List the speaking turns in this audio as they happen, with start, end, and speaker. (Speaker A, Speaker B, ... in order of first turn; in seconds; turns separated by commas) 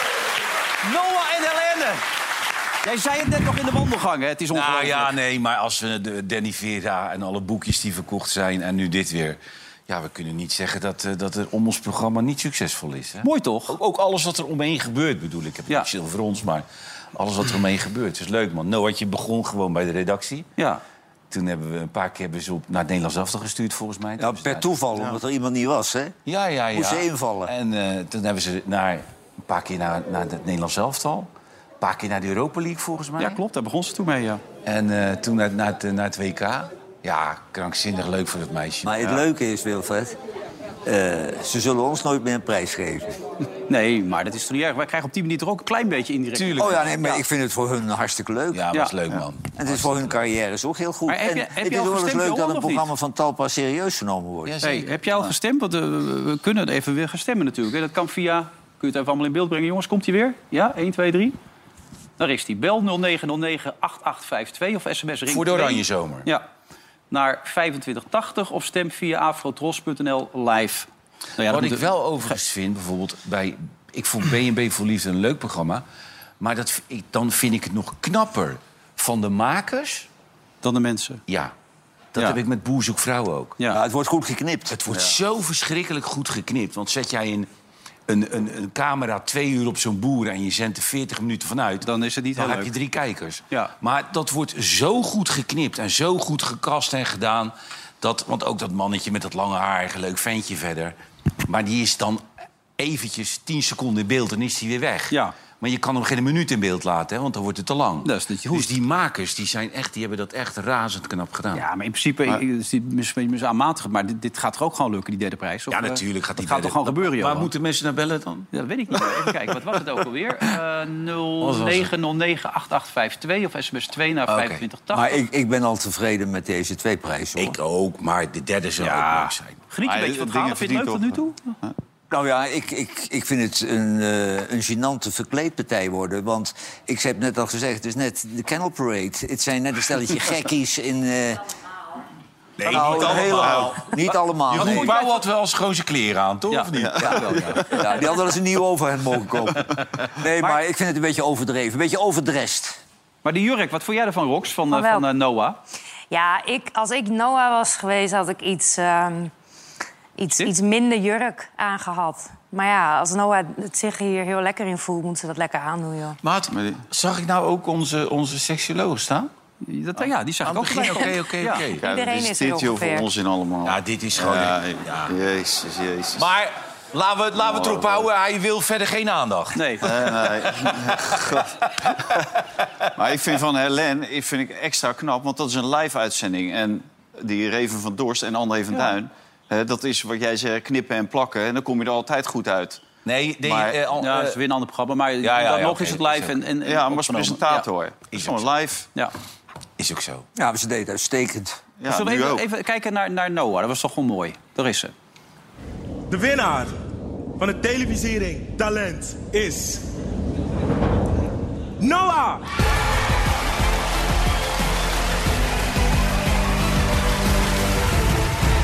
Speaker A: 0.8-2.0, Speaker A: 2.8-5.1, Speaker B: 4.5-20.5, Speaker A: 13.2-13.8, Speaker B: 21.3-24.7, Speaker C: 24.2-26.1, Speaker B: 26.2-31.3, Speaker C: 26.7-27.5, Speaker B: 31.8-33.4, Speaker A: 33.2-34.4, Speaker B: 34.6-39.2, Speaker C: 38.8-40.2, Speaker C: 40.8-43.1, Speaker A: 43.7-47.2, Speaker B: 46.3-46.9, Speaker C: 46.6-48.6, Speaker B: 48.5-50.1, Speaker C: 49.6-54.6, Speaker A: 51.1-52.9, Speaker B: 54.5-55.2, Speaker A: 54.6-61.4, Speaker A: 62.2-66.5, Speaker B: 65.2-66.3, Speaker A: 67.1-70.9, Speaker A: 71.4-71.8, Speaker B: 71.4-75.8, Speaker B: 76.4-80.1, Speaker A: 80.6-81.2, Speaker B: 81.3-81.5, Speaker B: 82.1-83.6, Speaker C: 83.7-84.8, Speaker B: 84.7-87.5, Speaker B: 88.1-102.2, Speaker A: 91.8-92.7, Speaker B: 102.8-111.7, Speaker A: 105.1-105.3, Speaker A: 108.0-108.7, Speaker A: 111.5-117.5, Speaker B: 115.7-119.3, Speaker A: 118.5-125.2, Speaker B: 121.4-121.9, Speaker B: 124.3-124.6, Speaker C: 124.9-127.6, Speaker B: 127.4-129.6, Speaker A: 128.8-131.5, Speaker D: 129.8-131.7, Speaker C: 132.1-141.5, Speaker B: 142.6-147.6, Speaker C: 142.7-144.9, Speaker A: 144.6-145.1, Speaker A: 146.5-147.6, Speaker D: 146.8-147.8, Speaker C: 147.0-152.8, Speaker A: 153.2-155.6, Speaker E: 154.7-155.1, Speaker E: 156.1-159.3, Speaker E: 160.2-166.2, Speaker B: 166.2-169.3, Speaker D: 166.5-166.8, Speaker A: 169.6-171.7, Speaker B: 170.4-171.8, Speaker E: 170.8-171.1, Speaker E: 171.7-173.1, Speaker D: 171.8-176.3, Speaker B: 173.6-175.1, Speaker B: 176.2-180.2, Speaker D: 177.3-178.1, Speaker A: 179.5-179.9, Speaker D: 179.8-181.5, Speaker B: 180.9-181.8, Speaker D: 182.9-192.8, Speaker B: 193.0-194.4, Speaker D: 193.4-193.8, Speaker A: 194.0-197.7, Speaker B: 195.2-196.4, Speaker D: 196.6-198.8, Speaker B: 198.1-198.5, Speaker B: 199.8-200.3, Speaker C: 200.3-201.6, Speaker D: 201.8-202.4, Speaker A: 201.8-204.9, Speaker F: 206.1-206.7, Speaker F: 207.4-209.8, Speaker F: 211.8-212.4